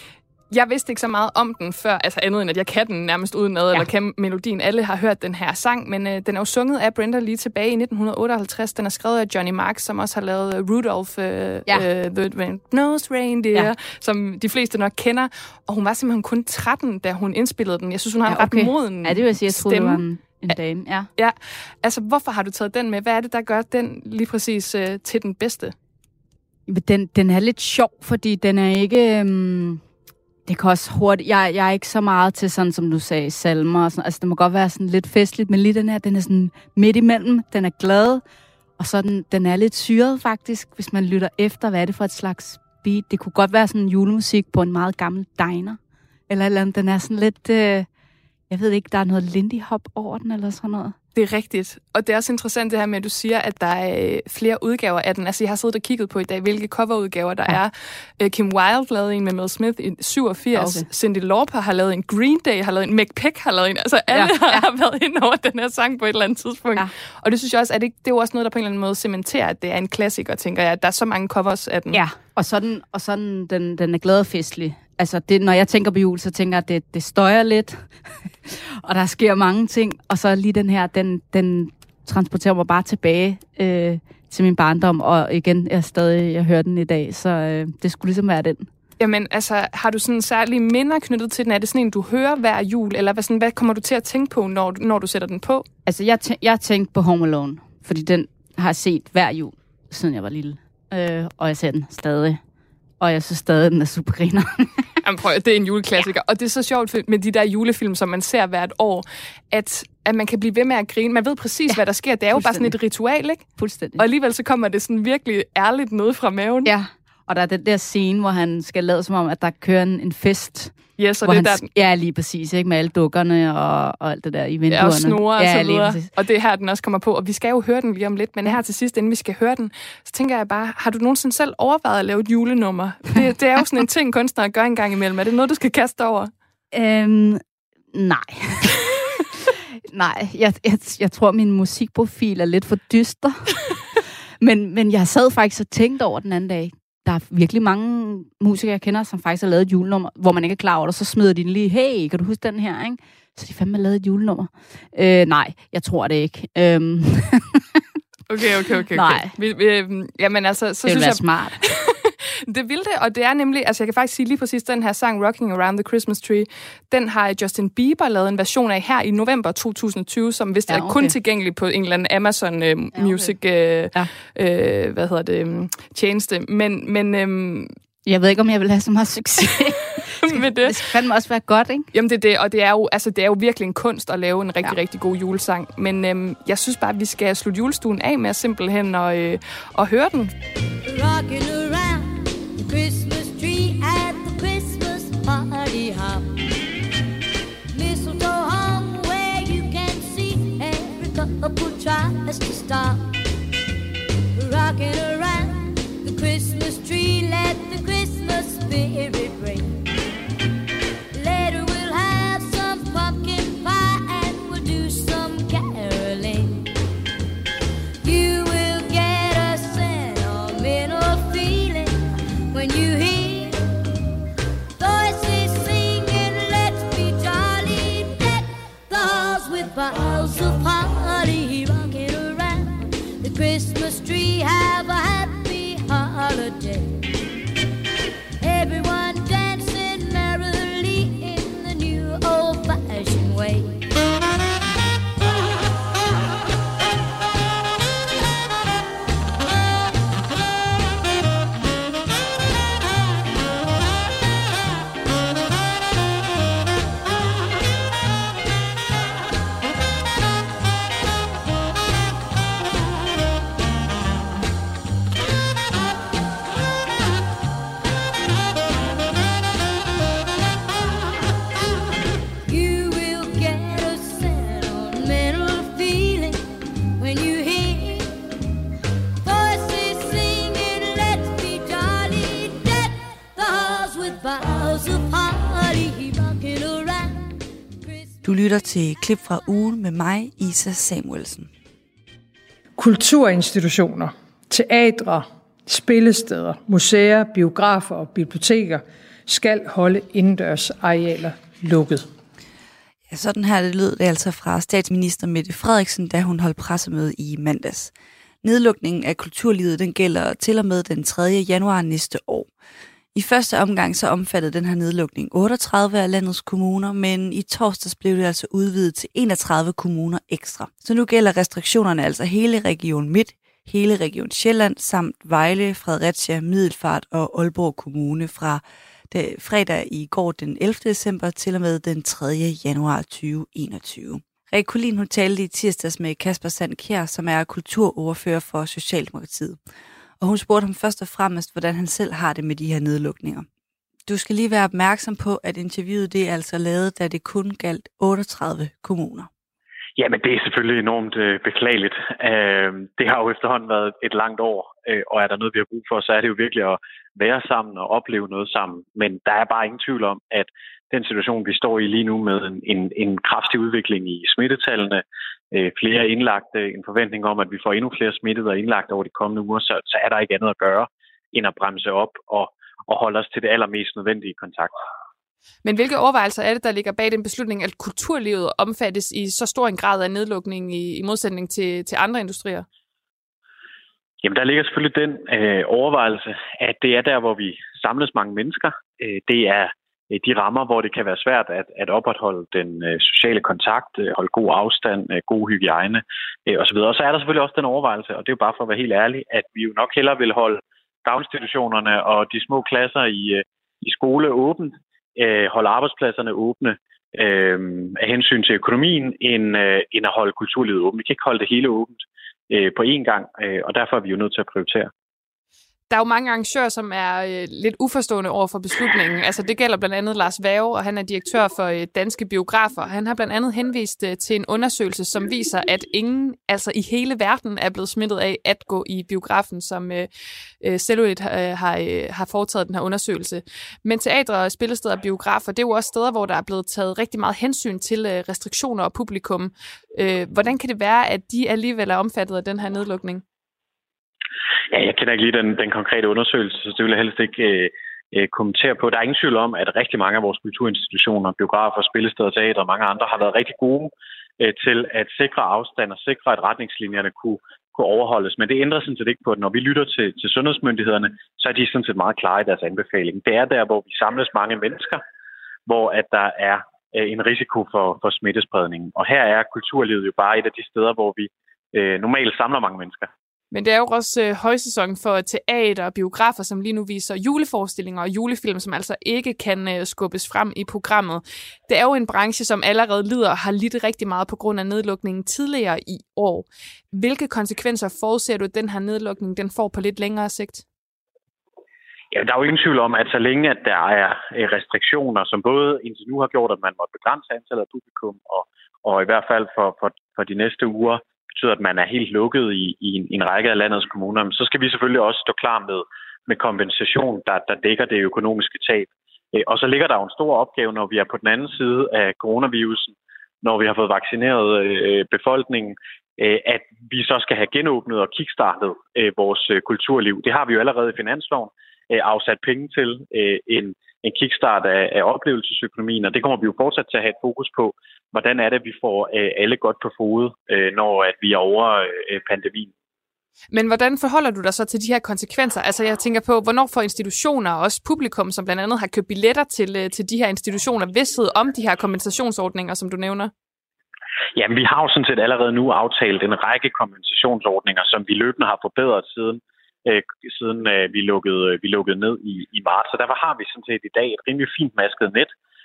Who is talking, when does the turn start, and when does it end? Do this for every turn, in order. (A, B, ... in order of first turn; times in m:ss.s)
0:00.5-0:20.6 A
0:18.2-0:21.1 B
0:21.2-0:25.7 A
0:26.7-0:29.8 B
0:30.5-0:38.2 B
0:38.8-0:45.8 B
0:46.3-0:47.9 B
0:48.5-0:51.0 B
0:51.1-1:12.0 A
1:00.5-1:00.9 B
1:04.1-1:04.7 B
1:11.9-1:17.9 B
1:18.5-1:28.7 B
1:29.0-1:35.6 A
1:35.9-1:42.4 B
1:43.0-1:44.9 B
1:45.0-1:56.7 A
1:51.7-1:52.8 B
1:53.6-1:54.0 B
1:56.6-2:06.1 B
2:01.0-2:01.7 A
2:04.7-2:16.3 A
2:16.7-2:17.4 B
2:17.9-2:18.9 B
2:19.9-2:23.8 B
2:24.4-2:37.8 B
2:38.3-2:57.7 A
2:38.9-2:39.3 B
2:40.8-2:41.6 B
2:50.7-2:51.1 B
2:52.9-2:53.4 B
2:58.0-3:01.9 B
3:00.2-3:00.8 A
3:01.9-3:10.3 A
3:10.8-3:16.3 C
3:17.7-3:23.0 C
3:24.4-3:29.8 C
3:31.1-3:36.7 C
3:38.0-3:42.0 C
3:42.5-3:43.6 C
3:44.8-3:57.0 C
3:58.4-4:03.8 C
4:32.5-4:36.4 C
4:37.0-4:38.1 C
4:39.2-4:48.1 C
4:48.2-4:51.5 D
4:52.8-5:02.1 E
5:03.1-5:12.5 D
5:13.1-5:39.6 D
5:40.2-5:43.4 D
5:44.0-5:49.3 D
5:50.0-6:14.7 F
6:15.6-6:22.6 A
6:24.2-6:54.9 F
6:55.9-7:10.1 A
7:10.6-7:23.2 A
7:24.7-7:45.0 F
7:45.7-7:53.1 F
7:53.5-8:10.6 A
8:12.1-8:52.7 F
8:53.5-9:03.3 A
9:04.4-9:15.3 F